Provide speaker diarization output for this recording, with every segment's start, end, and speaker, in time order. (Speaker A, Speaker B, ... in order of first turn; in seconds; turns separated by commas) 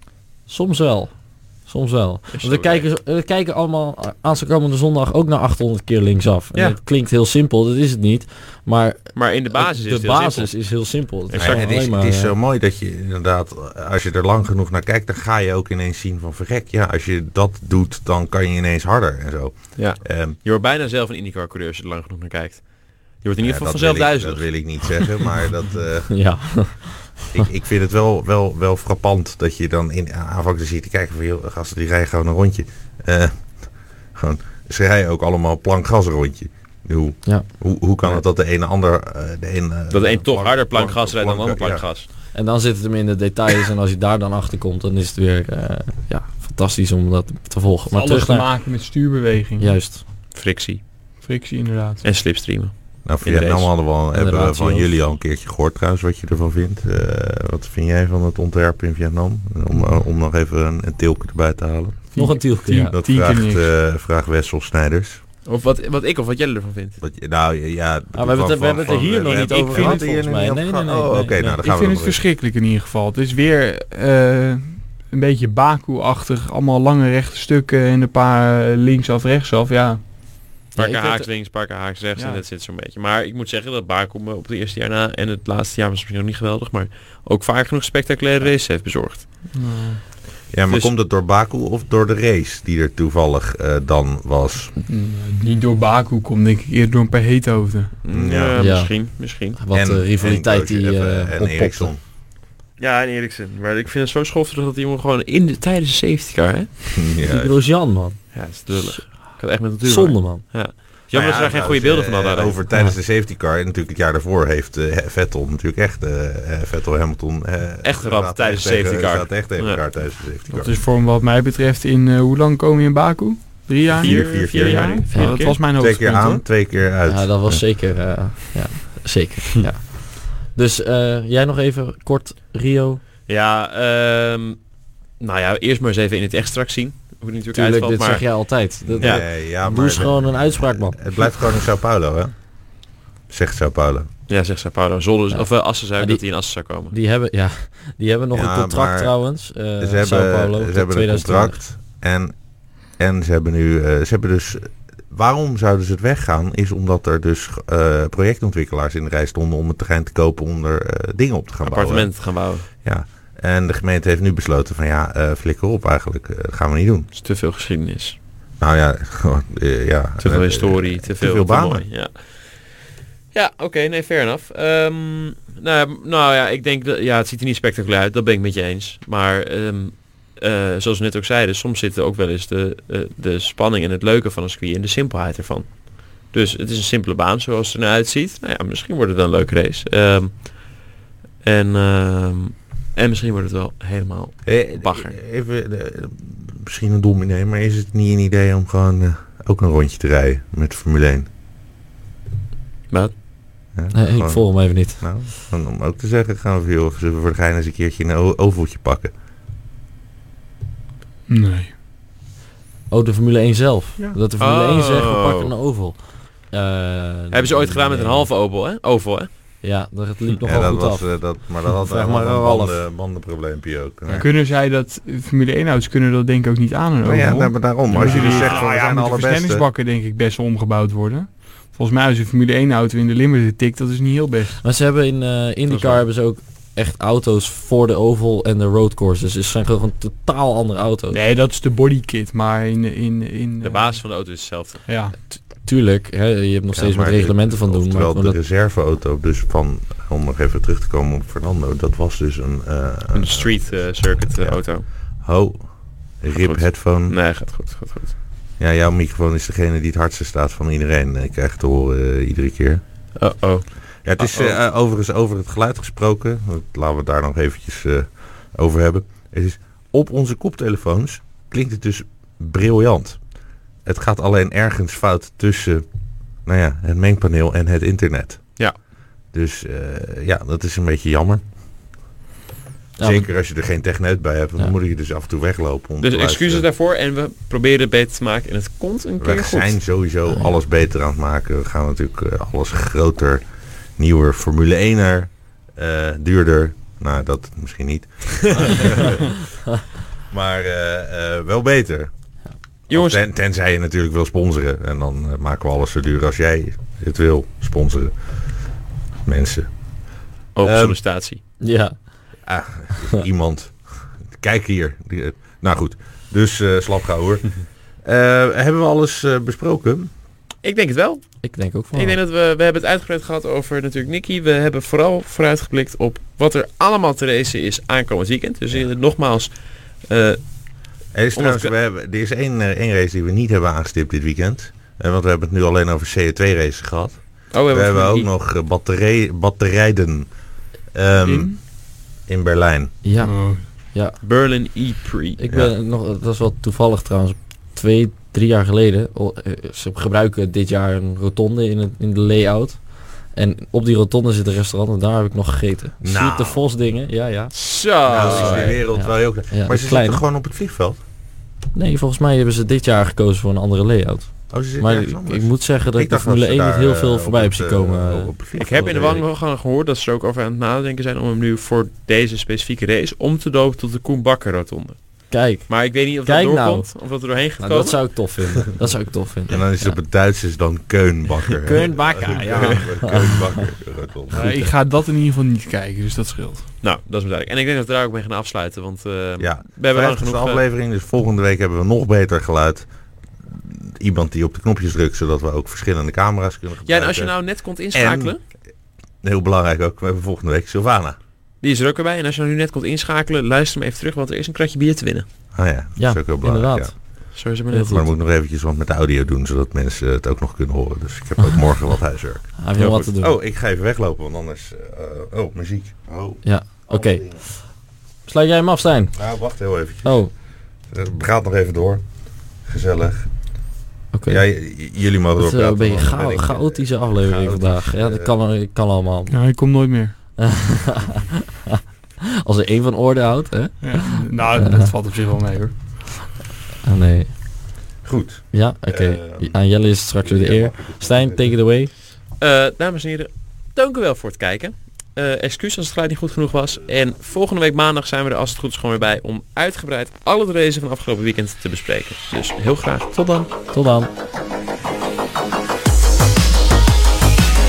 Speaker A: 0.5-12.3, Speaker B: 2.3-2.9, Speaker B: 9.1-10.6, Speaker B: 11.3-11.7, Speaker C: 11.3-20.4, Speaker B: 19.8-25.2, Speaker C: 23.4-26.4, Speaker A: 26.1-27.4, Speaker C: 27.3-41.9, Speaker B: 39.9-42.1, Speaker A: 42.3-48.5, Speaker D: 47.9-49.8, Speaker A: 49.6-50.0, Speaker B: 50.3-50.8, Speaker D: 51.2-52.0, Speaker B: 52.0-53.7, Speaker C: 53.0-65.2, Speaker A: 54.1-54.9, Speaker A: 62.1-62.9, Speaker D: 62.1-63.7, Speaker B: 65.4-67.0, Speaker C: 67.0-72.2, Speaker A: 68.1-71.6, Speaker D: 69.2-70.0, Speaker D: 71.6-80.0, Speaker B: 80.7-89.3, Speaker A: 80.8-81.3, Speaker D: 82.2-82.4, Speaker D: 89.5-90.0, Speaker C: 90.5-94.7, Speaker D: 94.9-98.0, Speaker B: 98.0-99.6, Speaker C: 98.1-98.6, Speaker A: 98.5-101.9, Speaker C: 99.7-102.0, Speaker B: 102.8-107.0, Speaker C: 106.9-107.5, Speaker A: 107.3-109.2, Speaker B: 108.3-112.6, Speaker A: 109.8-110.4, Speaker C: 111.1-120.7, Speaker B: 117.8-119.8, Speaker D: 120.5-126.4, Speaker B: 124.0-125.6, Speaker C: 124.0-127.6, Speaker A: 125.1-125.4, Speaker A: 127.1-133.0, Speaker B: 133.3-134.6, Speaker B: 135.2-138.2, Speaker A: 137.5-141.1, Speaker C: 138.8-142.3, Speaker B: 139.0-139.2, Speaker C: 143.3-144.1, Speaker B: 144.3-146.9, Speaker A: 145.3-151.6, Speaker C: 148.3-149.1, Speaker C: 149.8-152.4, Speaker C: 152.9-167.1, Speaker B: 161.6-162.7, Speaker B: 167.1-168.2, Speaker C: 168.6-171.8, Speaker B: 170.2-172.7, Speaker B: 173.3-190.7, Speaker B: 191.4-195.1, Speaker C: 194.4-201.3, Speaker B: 202.9-203.2, Speaker C: 203.7-209.1, Speaker A: 203.9-205.1, Speaker D: 211.3-211.7, Speaker A: 212.9-218.3, Speaker B: 214.4-215.5, Speaker B: 217.3-219.3, Speaker A: 219.6-222.8, Speaker C: 220.4-224.3, Speaker D: 224.2-234.6, Speaker C: 227.0-229.7, Speaker B: 227.9-228.6, Speaker A: 234.6-241.2, Speaker B: 235.7-236.0, Speaker D: 241.1-244.0, Speaker B: 243.6-244.8, Speaker D: 244.8-245.1, Speaker A: 245.3-248.4, Speaker C: 246.7-257.1, Speaker B: 253.1-254.8, Speaker B: 256.3-258.1, Speaker C: 258.6-262.8, Speaker B: 263.2-264.6, Speaker C: 264.0-273.2, Speaker C: 273.8-275.8, Speaker C: 276.4-278.6, Speaker C: 279.3-281.4, Speaker A: 283.0-283.3, Speaker C: 283.0-286.6, Speaker B: 286.0-289.8, Speaker C: 289.2-299.4, Speaker C: 300.3-302.1, Speaker B: 302.9-303.2, Speaker C: 302.9-308.2, Speaker C: 309.2-309.7, Speaker B: 310.5-311.4, Speaker C: 310.6-311.0, Speaker A: 311.6-312.0, Speaker C: 312.4-313.8, Speaker C: 314.3-320.1, Speaker B: 320.6-330.7, Speaker A: 321.4-322.2, Speaker C: 331.1-340.4, Speaker B: 331.4-331.7, Speaker B: 337.5-338.3, Speaker C: 340.9-343.0, Speaker D: 341.2-341.6, Speaker A: 343.0-344.2, Speaker D: 343.2-343.6, Speaker B: 344.2-345.4, Speaker A: 345.4-357.5, Speaker C: 345.5-345.7, Speaker C: 356.0-356.6, Speaker B: 357.5-358.8, Speaker C: 358.0-361.0, Speaker A: 358.2-360.2, Speaker A: 361.7-368.3, Speaker C: 364.5-369.2, Speaker B: 368.6-378.2, Speaker A: 375.3-379.9, Speaker C: 379.5-384.7, Speaker A: 381.6-383.6, Speaker D: 384.3-386.7, Speaker B: 386.8-390.6, Speaker C: 389.4-392.9, Speaker C: 393.4-398.4, Speaker B: 396.9-398.4, Speaker C: 399.2-401.2, Speaker B: 401.6-405.2, Speaker C: 405.5-406.9, Speaker A: 406.0-408.0, Speaker B: 407.3-408.1, Speaker C: 407.9-412.6, Speaker A: 412.6-413.3, Speaker B: 412.8-413.1, Speaker C: 413.1-417.4, Speaker A: 416.4-417.6, Speaker A: 418.2-419.1, Speaker C: 419.1-420.1, Speaker A: 420.0-420.3, Speaker C: 420.9-422.0, Speaker C: 422.6-423.3, Speaker A: 424.1-424.4, Speaker C: 424.3-428.3, Speaker A: 425.4-429.3, Speaker D: 429.3-430.1, Speaker A: 430.4-431.8, Speaker A: 432.4-434.9, Speaker D: 433.8-435.7, Speaker A: 436.8-437.3, Speaker C: 438.0-439.6, Speaker A: 438.5-441.9, Speaker C: 440.2-441.5, Speaker B: 442.4-453.4, Speaker A: 453.2-454.1